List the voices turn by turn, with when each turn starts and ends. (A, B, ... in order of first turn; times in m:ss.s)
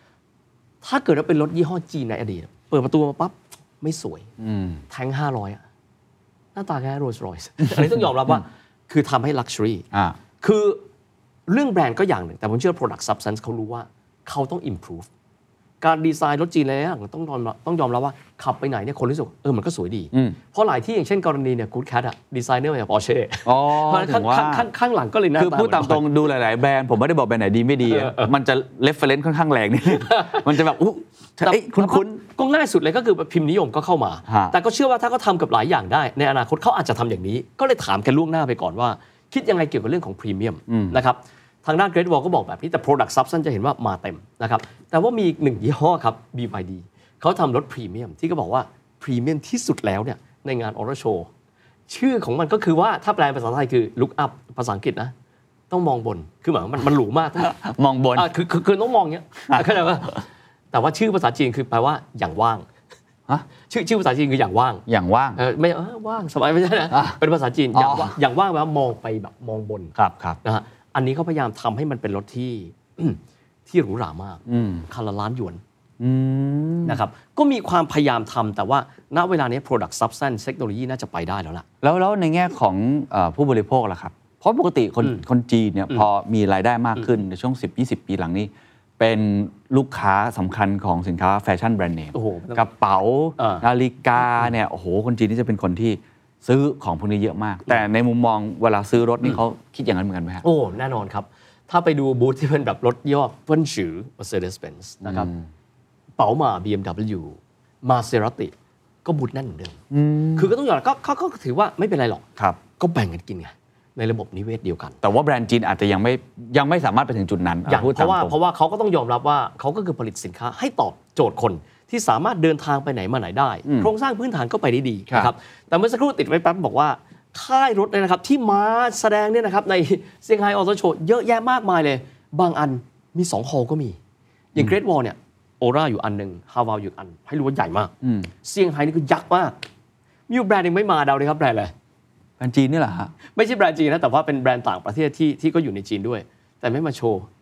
0:00.8-0:04.3 A
0:04.4-0:04.8 B
0:04.9-0:05.6 A
0:06.5-0:09.8 A
0:10.4-0:10.8 A
0:11.5-0:15.1 A
0:15.8-0:26.0 A
0:23.4-0:24.7 B
0:25.4-0:32.2 B
0:27.8-0:28.3 A
0:29.9-0:30.6 A
0:31.4-0:51.3 A
0:34.3-0:34.5 B
0:40.7-0:41.0 B
0:51.9-0:55.1 A
0:55.7-0:57.5 A
0:57.4-0:58.3 B
0:58.1-1:02.6 A
0:59.5-0:59.8 B
1:03.7-1:04.8 A
1:04.9-1:05.4 B
1:05.4-1:15.6 A
1:06.9-1:07.2 B
1:07.7-1:08.1 B
1:09.9-1:10.4 B
1:14.4-1:14.8 B
1:16.0-1:17.0 B
1:16.8-1:21.6 A
1:21.8-1:40.4 B
1:32.1-1:32.6 A
1:33.4-1:33.6 A
1:40.4-1:45.3 A
1:45.0-1:45.4 B
1:46.2-1:48.5 A
1:49.0-1:49.8 A
1:49.9-1:50.5 B
1:50.3-1:52.2 A
1:52.8-1:55.0 A
1:55.0-1:58.3 B
1:57.7-2:14.0 A
2:03.6-2:03.9 B
2:14.5-2:19.6 A
2:18.0-2:18.3 B
2:20.3-2:21.7 A
2:22.4-2:23.1 B
2:23.3-2:27.3 A